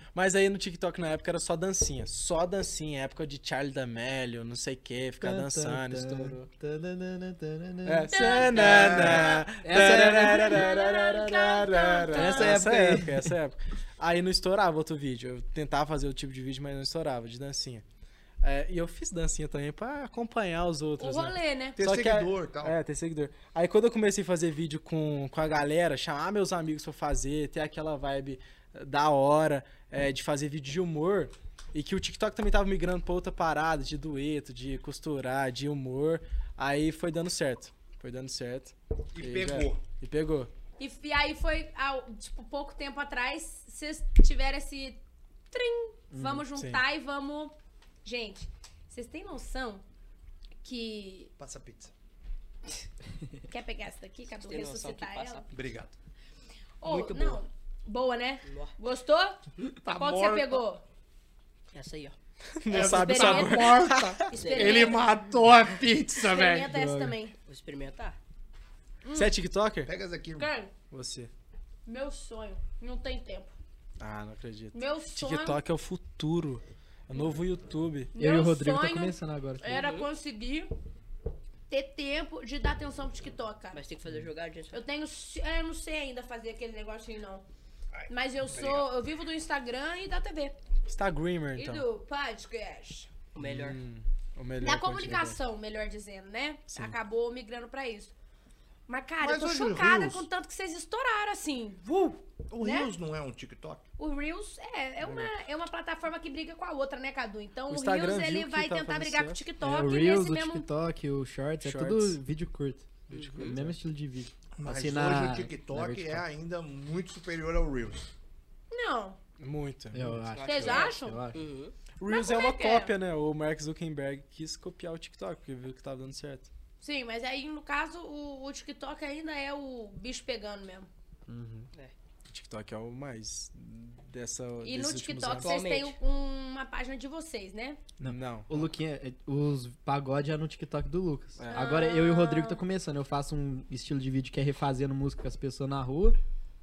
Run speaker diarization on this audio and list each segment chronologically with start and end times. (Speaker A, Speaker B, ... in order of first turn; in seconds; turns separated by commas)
Speaker A: 0.1-6.5, Speaker B: 5.2-10.7, Speaker A: 7.8-17.8, Speaker C: 8.1-9.1, Speaker D: 8.5-9.4, Speaker C: 9.9-12.6, Speaker B: 12.1-13.3, Speaker A: 18.4-40.5, Speaker C: 21.0-21.8, Speaker D: 21.8-22.7, Speaker D: 39.1-39.8, Speaker C: 40.8-45.0, Speaker C: 45.5-49.8, Speaker B: 46.1-46.4, Speaker A: 46.5-46.8, Speaker C: 50.6-51.3, Speaker D: 51.4-51.9, Speaker C: 53.5-55.5, Speaker E: 54.4-55.5, Speaker D: 55.5-56.0, Speaker C: 56.8-59.4, Speaker D: 56.9-57.4, Speaker E: 58.4-58.7, Speaker D: 59.8-60.6, Speaker C: 60.0-60.8, Speaker E: 61.7-62.1, Speaker A: 62.5-64.3, Speaker D: 62.7-66.7, Speaker C: 62.7-65.3, Speaker E: 64.3-65.0, Speaker C: 66.2-67.3, Speaker B: 66.7-67.2, Speaker E: 67.5-68.2, Speaker C: 69.0-69.3, Speaker A: 69.1-69.9, Speaker D: 69.9-70.5, Speaker C: 70.4-70.7, Speaker A: 70.9-71.3, Speaker C: 71.8-73.5, Speaker A: 74.0-78.1, Speaker C: 74.7-75.6, Speaker C: 78.1-80.7, Speaker B: 78.2-79.8, Speaker E: 79.7-80.1, Speaker C: 81.7-83.8, Speaker E: 83.7-84.8, Speaker C: 84.7-87.4, Speaker D: 87.9-88.9, Speaker C: 88.1-90.5, Speaker A: 90.9-91.8, Speaker C: 91.5-93.1, Speaker E: 93.3-93.8, Speaker A: 93.4-95.4, Speaker C: 94.6-98.1, Speaker A: 96.7-96.9, Speaker C: 98.9-102.9, Speaker D: 99.2-100.3, Speaker D: 102.5-103.8, Speaker C: 104.0-110.7, Speaker A: 105.0-105.3, Speaker A: 107.7-109.5, Speaker B: 109.6-112.9, Speaker A: 111.6-112.2, Speaker A: 113.1-113.8, Speaker E: 113.1-113.6, Speaker B: 113.4-116.2, Speaker D: 114.6-118.1, Speaker C: 118.7-119.2, Speaker A: 119.4-120.2, Speaker B: 119.9-121.4, Speaker E: 120.3-121.7, Speaker C: 120.4-121.2, Speaker A: 122.0-126.5, Speaker C: 122.1-122.9, Speaker C: 126.8-130.9, Speaker A: 131.3-131.7, Speaker A: 132.3-135.6, Speaker C: 134.6-137.8, Speaker E: 135.3-135.9, Speaker A: 138.0-138.7, Speaker B: 138.0-146.2, Speaker A: 141.4-141.8, Speaker C: 141.5-142.6